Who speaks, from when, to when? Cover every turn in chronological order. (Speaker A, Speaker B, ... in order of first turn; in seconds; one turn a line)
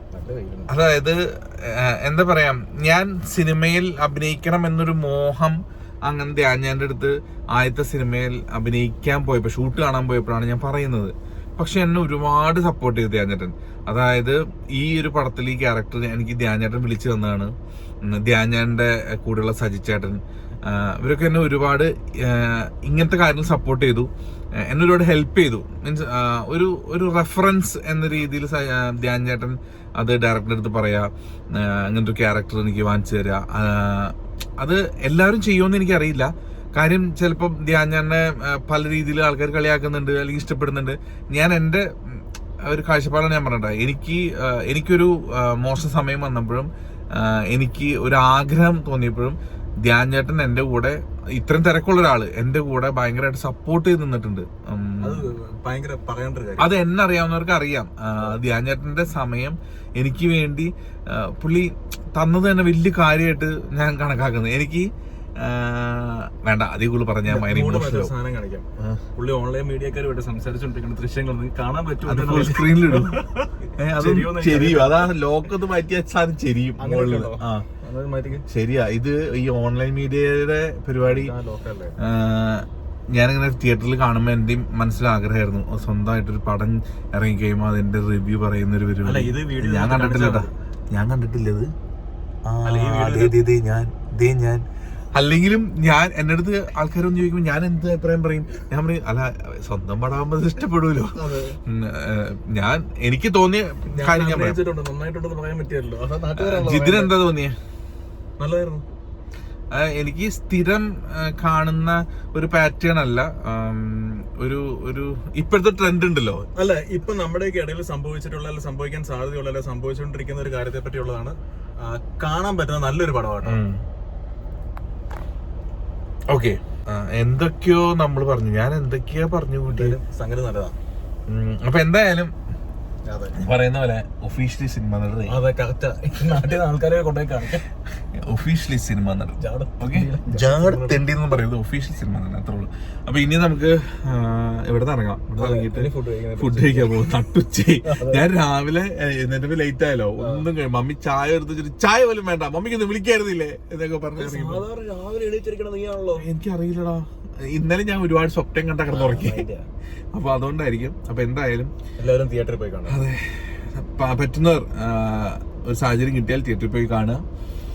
Speaker A: 0.1-0.9
Speaker B: 0.7-17.5
Speaker B: 18.0-55.3
Speaker A: 55.0-56.8
Speaker B: 56.6-68.1
Speaker A: 58.1-58.4
Speaker A: 67.2-75.2
Speaker B: 68.8-69.0
Speaker B: 72.0-73.2
Speaker B: 73.8-77.7
Speaker A: 76.8-78.5
Speaker B: 78.5-81.3
Speaker A: 81.0-82.0
Speaker B: 82.0-91.7
Speaker A: 89.0-90.5
Speaker B: 92.5-104.6
Speaker A: 92.6-93.4
Speaker A: 101.2-101.6
Speaker A: 103.9-107.2
Speaker B: 106.4-107.6
Speaker A: 108.4-108.8
Speaker B: 109.7-116.5
Speaker A: 116.5-123.6
Speaker B: 123.4-123.8
Speaker B: 126.3-130.0
Speaker A: 129.7-130.8
Speaker B: 131.3-132.3
Speaker A: 133.1-133.4
Speaker B: 133.3-135.3
Speaker A: 135.3-137.6
Speaker B: 138.1-154.7
Speaker A: 139.4-141.1
Speaker A: 145.4-147.2
Speaker A: 147.8-148.2
Speaker A: 150.2-150.5
Speaker A: 154.2-156.3
Speaker B: 156.2-159.5
Speaker A: 158.9-159.7
Speaker B: 160.1-161.7
Speaker A: 162.0-163.0
Speaker B: 162.9-167.2